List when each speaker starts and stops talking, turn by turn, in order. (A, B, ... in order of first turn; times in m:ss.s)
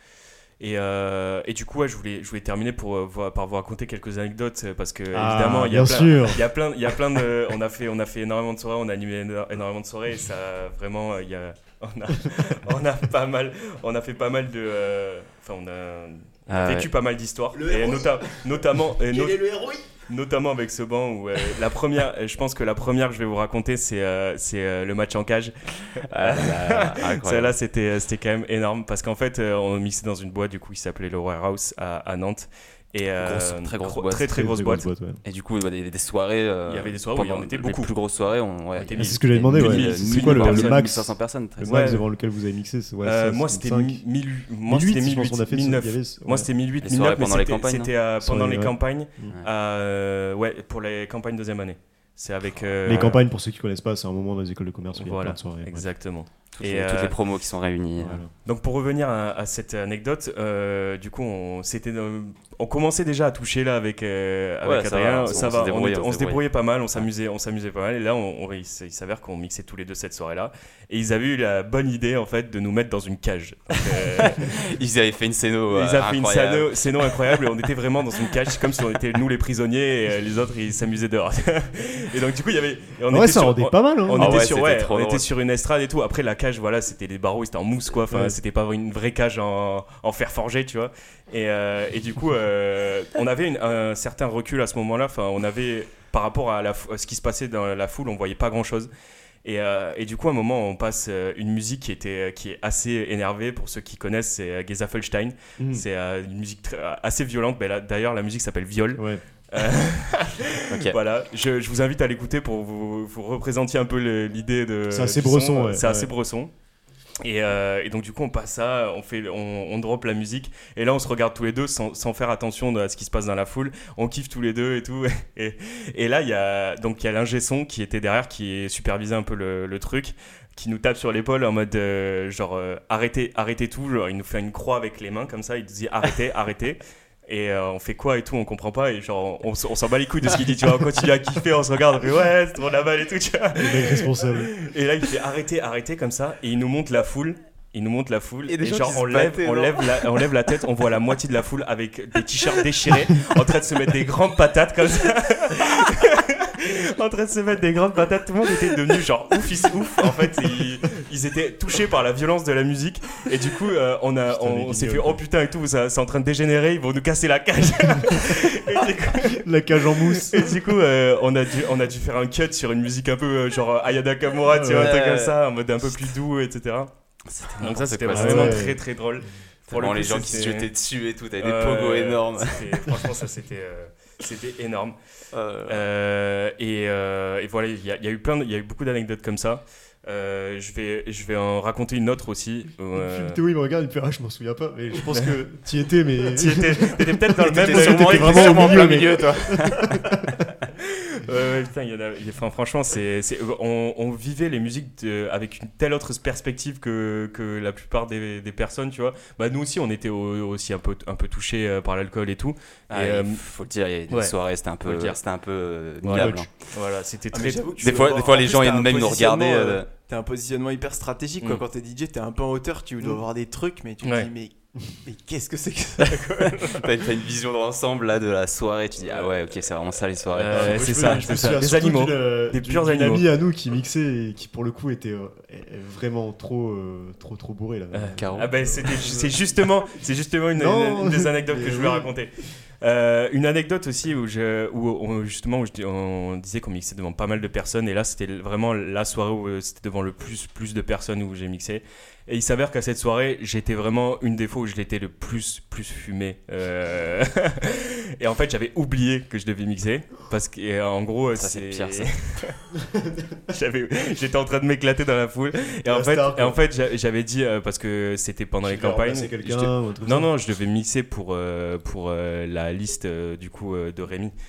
0:00.6-0:34.9 A
0:05.1-0:06.4 B
0:16.5-0:16.9 C
0:17.5-0:19.9 D
0:26.1-0:27.6 C
0:33.2-0:34.3 C
0:34.3-0:35.2 B
0:35.2-0:42.0 C
0:36.7-0:37.9 A
0:38.8-0:40.9 A
0:38.9-0:44.0 B
0:41.6-0:42.0 A
0:43.0-0:53.2 A
0:44.7-0:46.5 B
0:46.8-0:47.9 C
0:48.2-0:49.3 B
0:52.5-0:53.1 C
0:52.8-0:55.9 B
0:54.9-0:57.2 A
0:56.5-0:58.2 C
0:58.0-0:58.3 B
0:58.4-1:14.6 A
1:04.6-1:06.4 C
1:13.9-1:17.3 C
1:15.7-1:38.9 A
1:23.1-1:24.4 B
1:24.1-1:25.2 C
1:28.1-1:28.4 B
1:39.4-1:56.5 A
1:45.6-1:45.8 B
1:49.0-1:49.2 B
1:50.7-1:51.0 C
1:54.9-1:56.1 B
1:57.2-2:56.9 A
2:23.6-2:24.5 B
2:28.5-2:30.3 C
2:44.3-2:45.2 B
2:49.1-2:50.5 B
2:54.5-2:55.0 B
2:54.7-2:56.1 C
2:57.3-2:58.7 C
2:57.6-3:00.7 A
2:58.1-2:58.8 B
2:59.7-3:02.9 C
3:01.4-3:05.0 A
3:05.3-3:05.8 C
3:05.7-3:13.4 A
3:13.0-3:20.5 B
3:16.3-3:19.1 A
3:17.4-3:20.0 C
3:20.8-3:33.4 A
3:32.9-3:36.5 C
3:34.1-3:35.2 A
3:36.0-3:37.8 A
3:36.1-3:36.5 B
3:37.3-3:46.8 D
3:37.8-3:39.9 C
3:44.0-3:44.3 A
3:46.5-3:51.2 C
3:50.3-3:53.2 A
3:50.5-3:59.3 B
3:57.9-4:22.6 A
3:58.2-3:58.5 C
4:00.6-4:02.1 B
4:21.3-4:22.1 C
4:22.8-4:23.4 B
4:23.5-4:34.3 A
4:25.9-4:26.6 B
4:28.6-4:30.3 B